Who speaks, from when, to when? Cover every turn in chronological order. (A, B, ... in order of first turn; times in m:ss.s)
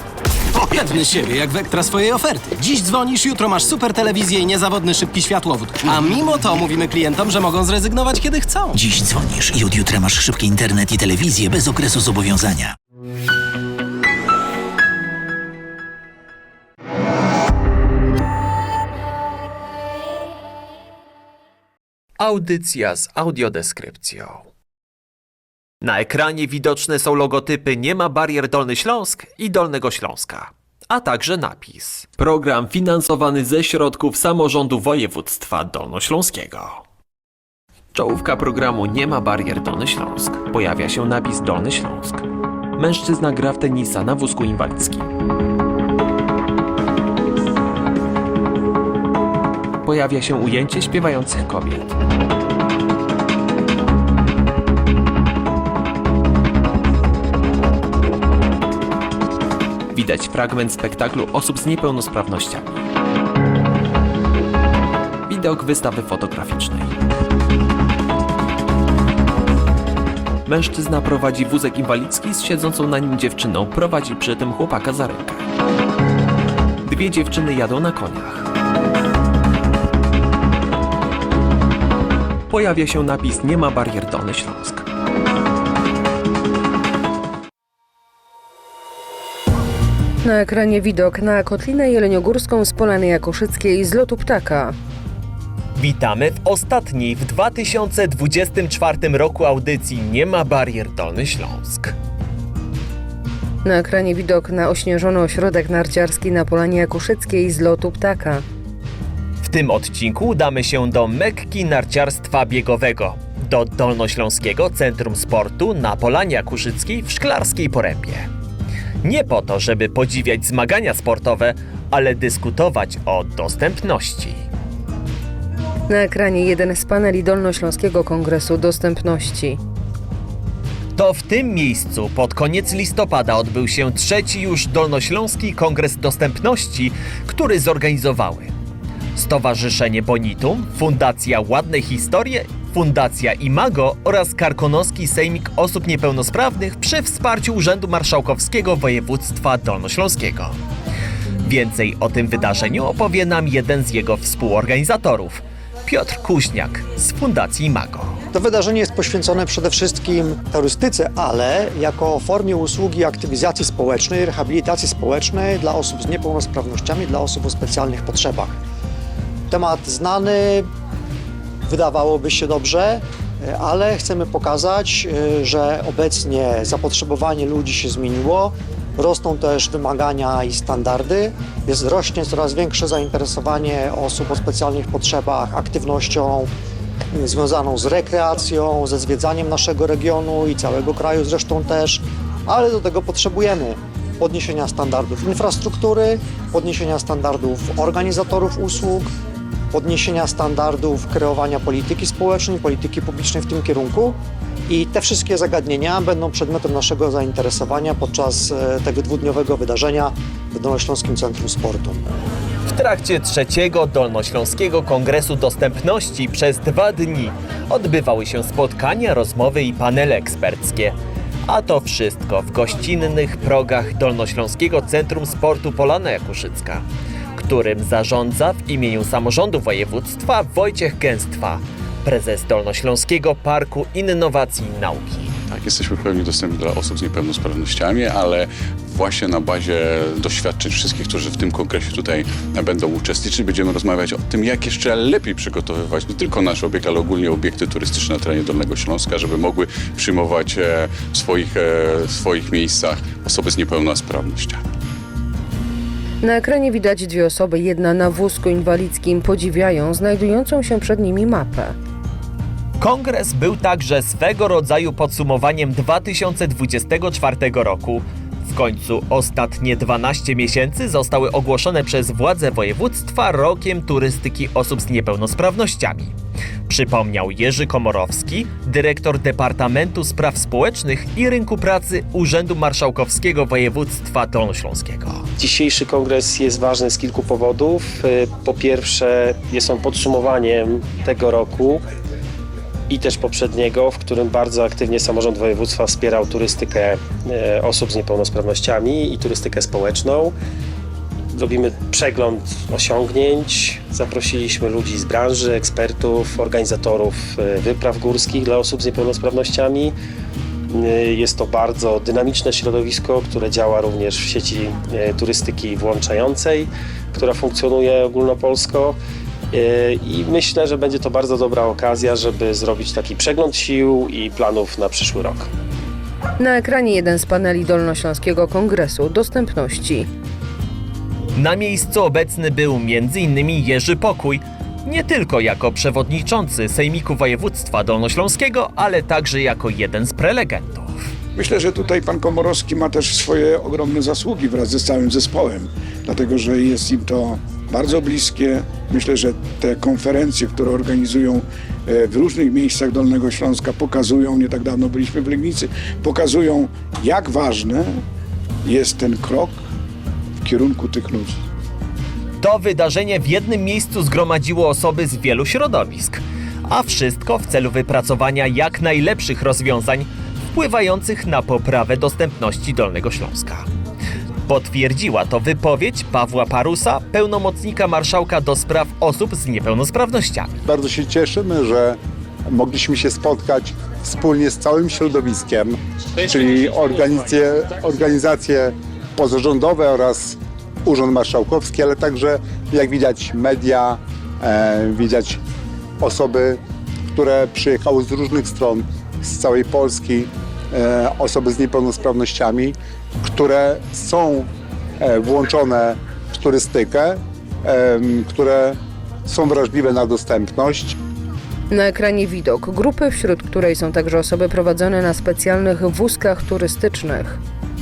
0:00.5-0:08.8 A
0:08.7-0:12.7 B
0:22.2-0:24.5 C
0:25.8-0:36.8 C
0:37.9-0:42.2 C
0:42.8-0:45.1 C
0:49.8-0:52.0 C
0:59.9-1:02.6 C
1:05.3-1:07.0 C
1:10.5-1:15.4 C
1:16.8-1:18.5 C
1:22.5-1:24.9 C
1:30.2-1:34.8 D
1:35.8-1:41.9 C
1:43.6-1:48.4 D
1:49.4-1:58.3 C
1:59.0-2:04.4 C
2:05.9-2:09.6 D
2:11.0-2:18.5 C
2:19.2-2:30.6 C
2:31.4-2:38.2 C
2:38.3-2:48.5 E
2:49.5-2:50.7 E
2:51.7-3:06.5 E
3:07.1-3:19.1 E
3:19.7-3:32.0 E
3:32.7-3:41.0 C
3:41.5-3:46.8 C
3:47.4-3:55.4 C
3:55.5-4:14.6 F
4:16.2-4:21.8 D
4:22.8-4:36.1 C
4:36.7-4:45.3 C
4:45.4-4:51.8 G
4:52.9-5:00.3 G
5:01.3-5:10.0 G
5:10.7-5:19.0 G
5:19.5-5:25.5 G
5:26.4-5:30.1 D
5:31.4-5:41.0 C
5:41.4-5:58.0 H
5:58.6-5:59.6 H
6:00.4-6:01.3 H
6:02.4-6:13.7 C
6:14.5-6:20.6 C
6:20.7-6:22.0 I
6:22.5-6:35.4 I
6:36.0-6:36.6 I
6:37.1-6:44.5 I
6:45.0-6:51.0 I
6:51.7-6:57.4 D